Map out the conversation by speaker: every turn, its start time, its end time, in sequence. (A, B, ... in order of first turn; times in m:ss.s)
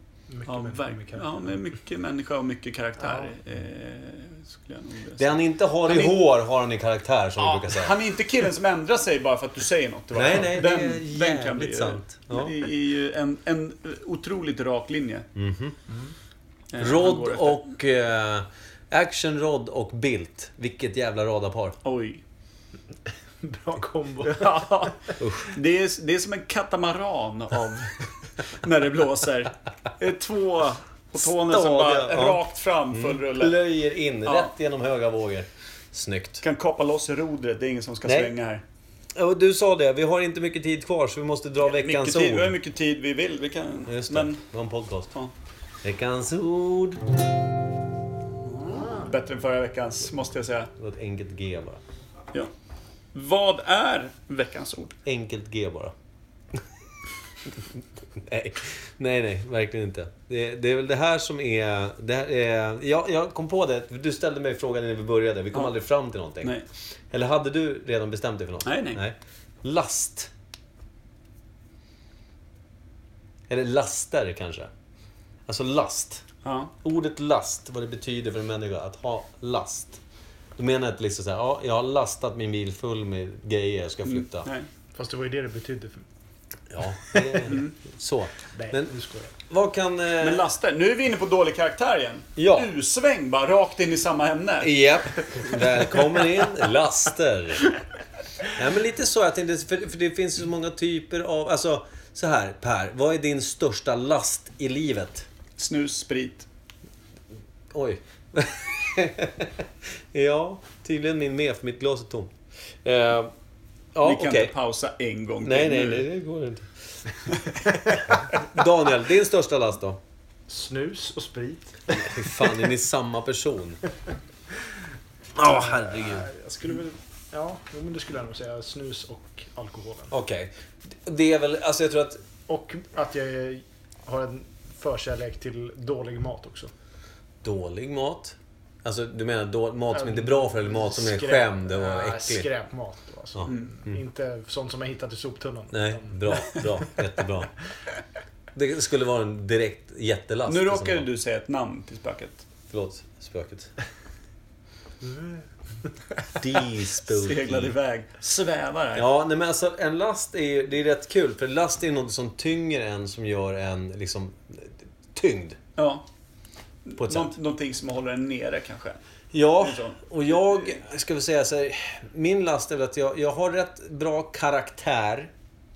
0:00.3-0:01.5 A
0:00.5-0:06.2 B
0:03.0-0:03.3 A
0:05.2-0:07.9 C
0:07.4-0:15.3 B
0:10.1-0:12.6 C
0:15.4-0:15.8 C
0:16.7-0:17.6 B
0:16.8-0:21.8 C
0:21.8-0:22.2 B
0:23.4-0:24.7 A
0:24.2-0:33.6 B
0:25.2-0:25.5 C
0:31.2-0:36.4 C
0:34.2-0:34.5 B
0:36.4-0:38.6 B
0:38.0-0:38.3 C
0:39.2-0:42.6 C
0:41.6-0:44.4 B
0:43.9-0:45.1 C
0:45.8-0:47.1 C
0:48.4-0:50.7 B
0:48.7-0:49.1 A
0:50.8-0:51.8 C
0:53.1-0:55.0 B
0:55.0-0:55.9 C
0:57.5-1:06.6 C
1:07.1-1:10.3 C
1:08.7-1:09.0 B
1:13.5-1:14.7 C
1:15.5-1:16.2 C
1:16.4-1:16.7 B
1:16.8-1:20.0 C
1:20.6-1:24.5 C
1:24.1-1:24.7 B
1:25.0-1:26.0 A
1:26.7-1:28.9 C
1:27.4-1:27.7 B
1:28.5-1:29.3 A
1:29.5-1:30.5 C
1:30.2-1:35.6 B
1:32.4-1:32.7 C
1:34.6-1:37.7 C
1:38.5-1:45.3 C
1:45.6-1:46.5 B
1:47.7-1:52.3 C
1:52.8-1:53.3 C
1:54.0-1:54.5 C
1:54.0-1:56.1 B
1:55.4-1:56.9 C
1:57.3-1:57.6 B
1:58.2-2:00.0 C
2:00.5-2:02.5 A
2:01.9-2:03.8 C
2:05.4-2:06.3 C
2:05.4-2:10.1 A
2:10.1-2:12.2 C
2:12.5-2:16.7 A
2:17.4-2:22.5 C
2:19.9-2:26.5 A
2:23.4-2:24.0 C
2:25.7-2:27.5 C
2:28.5-2:31.1 C
2:30.5-2:32.5 B
2:32.7-2:33.7 C
2:35.0-2:35.4 A
2:36.4-2:37.7 C
2:37.0-2:39.1 B
2:39.0-2:45.6 C
2:45.8-2:46.0 B
2:46.9-2:49.0 B
2:47.0-2:47.3 C
2:49.3-2:55.3 C
2:49.6-2:50.0 B